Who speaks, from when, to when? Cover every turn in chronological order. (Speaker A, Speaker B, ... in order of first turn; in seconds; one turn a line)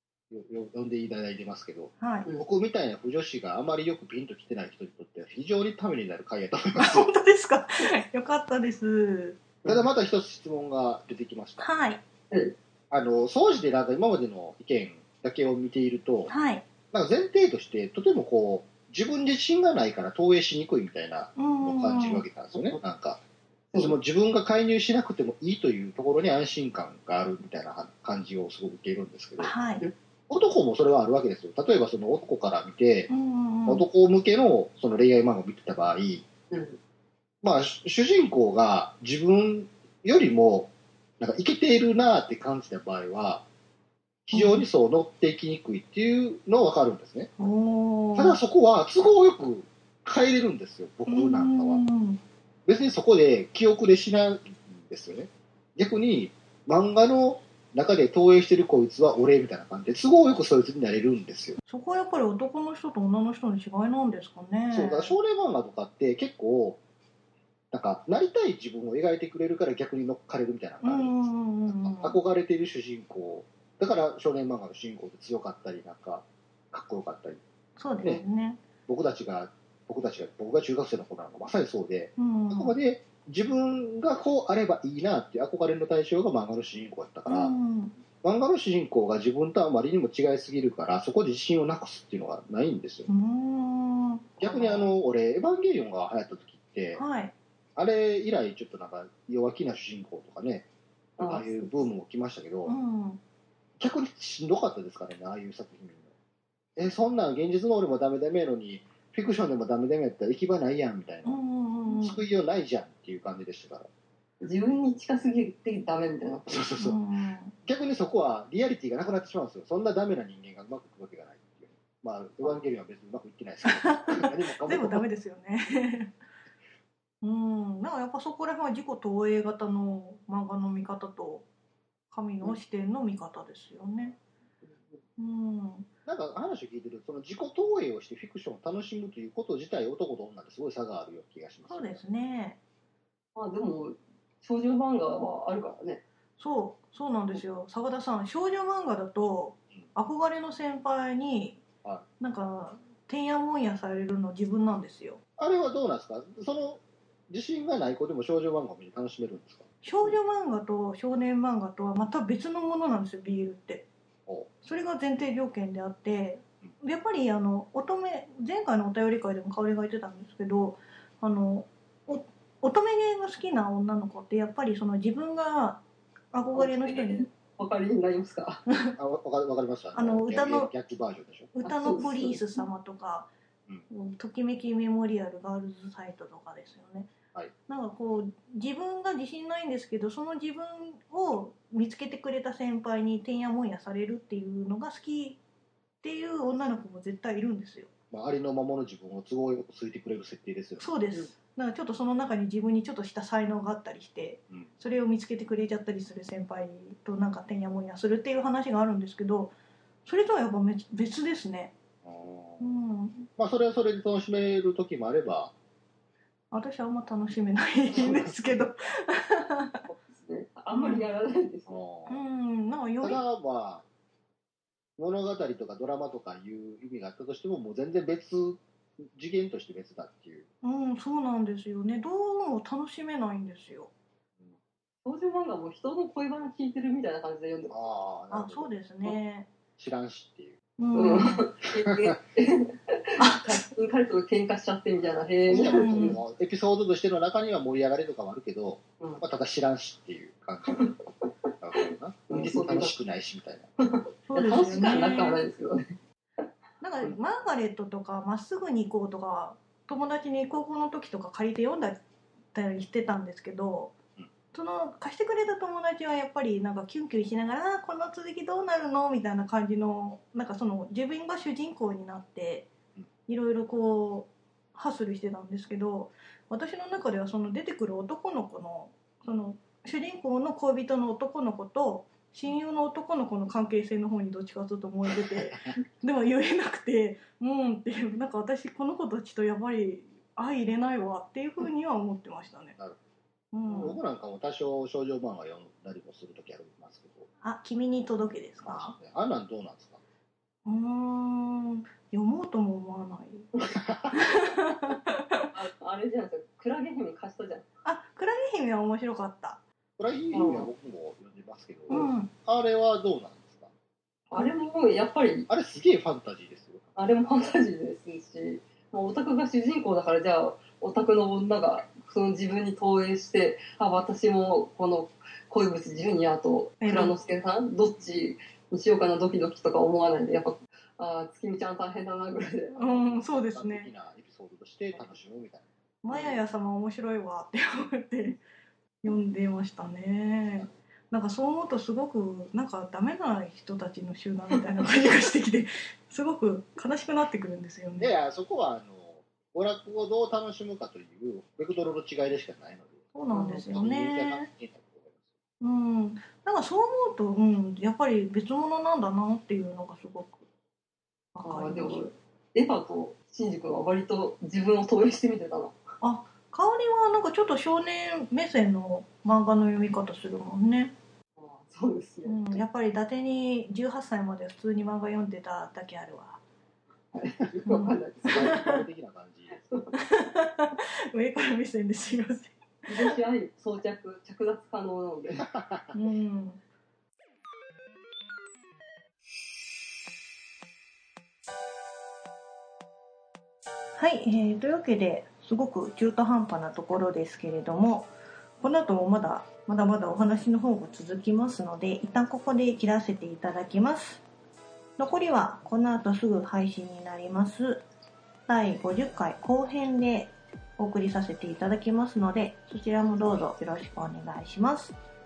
Speaker A: 0.3-7.1
Speaker B: 2.0-2.3
Speaker B: 6.8-9.4
Speaker A: 9.7-11.7
Speaker B: 11.6-12.0
Speaker C: 12.3-12.6
Speaker A: 12.9-16.3
Speaker B: 16.3-16.7
Speaker A: 16.9-23.2
Speaker B: 21.4-22.2
Speaker A: 23.8-29.5
Speaker B: 29.4-29.9
Speaker A: 30.3-33.1
Speaker B: 33.1-33.9
Speaker A: 33.7-36.3
Speaker C: 36.5-36.8
Speaker A: 37.4-43.5
Speaker A: 44.2-47.3
Speaker B: 44.3-44.6
Speaker B: 47.4-48.4
Speaker A: 48.1-51.8
Speaker B: 51.0-52.2
Speaker A: 52.7-61.6
Speaker B: 61.7-65.1
Speaker A: 64.7-66.8
Speaker A: 67.7-77.4
Speaker B: 70.8-72.2
Speaker B: 77.8-78.6
Speaker A: 78.9-87.5
Speaker B: 82.2-82.8
Speaker B: 87.3-88.0
Speaker A: 88.2-93.1
Speaker B: 93.1-94.3
Speaker C: 94.4-94.9
Speaker A: 94.4-97.0
Speaker B: 97.0-97.3
Speaker A: 97.8-100.7
Speaker C: 101.2-101.5
Speaker A: 101.2-102.7
Speaker B: 102.7-103.2
Speaker A: 103.8-106.1
Speaker A: 106.8-113.9
Speaker B: 111.2-112.2
Speaker C: 114.4-116.6
Speaker A: 116.5-117.0
Speaker B: 116.8-117.5
Speaker A: 117.6-125.0
Speaker B: 123.6-126.1
Speaker B: 127.2-131.4
Speaker B: 132.1-134.2
Speaker C: 134.6-135.0
Speaker B: 135.2-135.9
Speaker A: 136.1-142.0
Speaker B: 141.7-142.6
Speaker C: 143.3-146.0
Speaker B: 146.4-151.6
Speaker B: 152.2-155.2
Speaker A: 155.4-159.7
Speaker B: 159.8-163.9
Speaker B: 164.6-175.8
Speaker B: 176.3-177.3
Speaker C: 176.5-178.6
Speaker A: 179.0-181.5
Speaker B: 179.9-180.7
Speaker B: 181.5-183.3
Speaker C: 181.6-182.4
Speaker B: 183.9-187.1
Speaker B: 187.7-195.4
Speaker B: 196.0-197.9
Speaker A: 198.1-200.9
Speaker B: 200.8-209.5
Speaker B: 210.1-211.7
Speaker A: 212.0-212.6
Speaker B: 212.6-213.3
Speaker A: 213.4-215.5
Speaker B: 216.5-219.8
Speaker A: 217.9-218.3
Speaker C: 219.9-221.8
Speaker B: 220.7-221.1
Speaker A: 221.7-222.2
Speaker B: 222.1-223.2
Speaker A: 223.0-223.8
Speaker A: 225.0-230.5
Speaker B: 230.6-233.9
Speaker C: 235.0-237.8
Speaker A: 237.7-238.7
Speaker B: 238.3-239.5
Speaker A: 239.8-240.6
Speaker B: 240.8-241.4
Speaker C: 240.9-246.2
Speaker A: 241.8-242.0
Speaker B: 243.2-243.6
Speaker A: 245.5-250.9
Speaker B: 245.5-246.2
Speaker C: 250.7-252.9
Speaker A: 251.6-253.7
Speaker C: 253.8-256.4
Speaker B: 254.3-255.4
Speaker B: 256.8-262.0
Speaker B: 262.5-263.9
Speaker B: 264.5-272.7
Speaker B: 273.3-292.8
Speaker B: 293.5-294.0
Speaker A: 293.7-297.3
Speaker B: 297.4-298.9
Speaker A: 298.6-300.0
Speaker B: 300.6-303.5
Speaker A: 303.6-304.2
Speaker B: 304.1-305.5
Speaker C: 305.5-307.6
Speaker B: 307.8-309.6
Speaker A: 310.0-313.7
Speaker C: 310.3-310.7
Speaker B: 311.9-312.3
Speaker C: 314.3-315.5
Speaker A: 315.5-316.9
Speaker C: 316.9-332.8
Speaker B: 326.8-327.1
Speaker B: 332.7-333.9
Speaker A: 332.7-335.6
Speaker B: 336.0-338.4
Speaker C: 336.1-336.4
Speaker B: 339.0-348.1
Speaker A: 348.0-353.1
Speaker B: 353.1-354.5
Speaker C: 353.3-353.7
Speaker A: 353.6-355.2
Speaker B: 355.6-360.4
Speaker B: 361.3-362.1
Speaker C: 361.4-365.8
Speaker B: 366.0-370.9
Speaker C: 371.4-372.4
Speaker B: 372.2-376.4
Speaker C: 377.1-378.6
Speaker B: 377.6-378.8
Speaker A: 378.3-379.6
Speaker C: 379.5-379.9
Speaker B: 379.9-383.1
Speaker C: 382.9-385.5
Speaker A: 385.4-385.9
Speaker B: 385.9-386.6
Speaker B: 394.0-404.2
Speaker B: 405.0-407.8
Speaker B: 408.5-414.9